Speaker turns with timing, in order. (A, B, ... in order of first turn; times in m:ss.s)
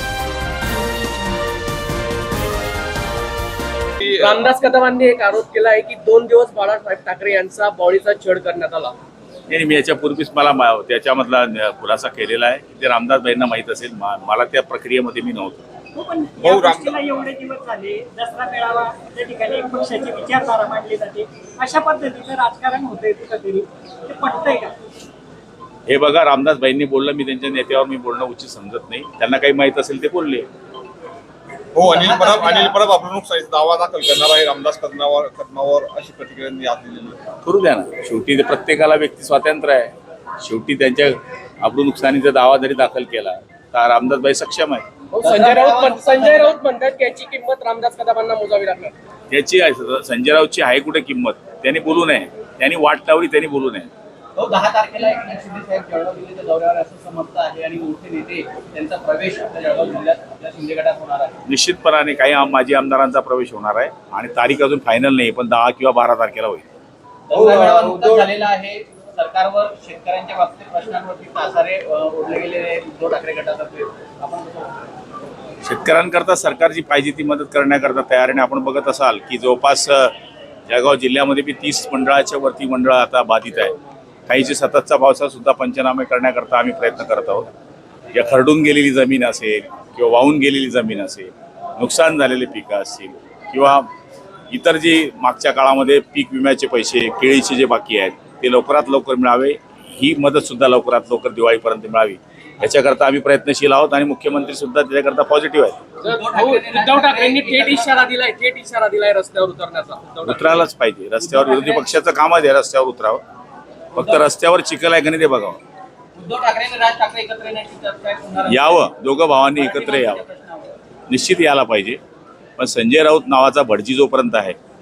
0:04.1-0:08.9 A
0:09.5-0:15.6 B
0:15.9-0:24.7 C
0:16.4-0:17.0 D
0:25.9-0:30.5 B
0:31.7-0:37.2 D
0:31.8-0:32.8 E
0:37.4-0:44.9 B
0:45.1-0:48.9 A
0:45.2-0:46.5 E
0:49.3-0:53.9 B
0:54.4-1:01.4 E
1:01.5-1:06.6 B
1:07.3-1:14.8 E
1:15.6-1:20.1 B
1:20.7-1:23.7 B
1:24.3-1:27.5 B
1:28.1-1:33.9 B
1:34.5-1:45.8 B
1:46.0-1:50.6 A
1:46.0-1:47.9 E
1:50.2-1:53.2 B
1:53.9-1:55.6 B
1:53.9-1:54.3 E
1:56.1-1:58.9 E
1:58.4-2:00.2 B
1:59.4-2:00.7 E
2:01.1-2:02.0 B
2:02.6-2:04.6 B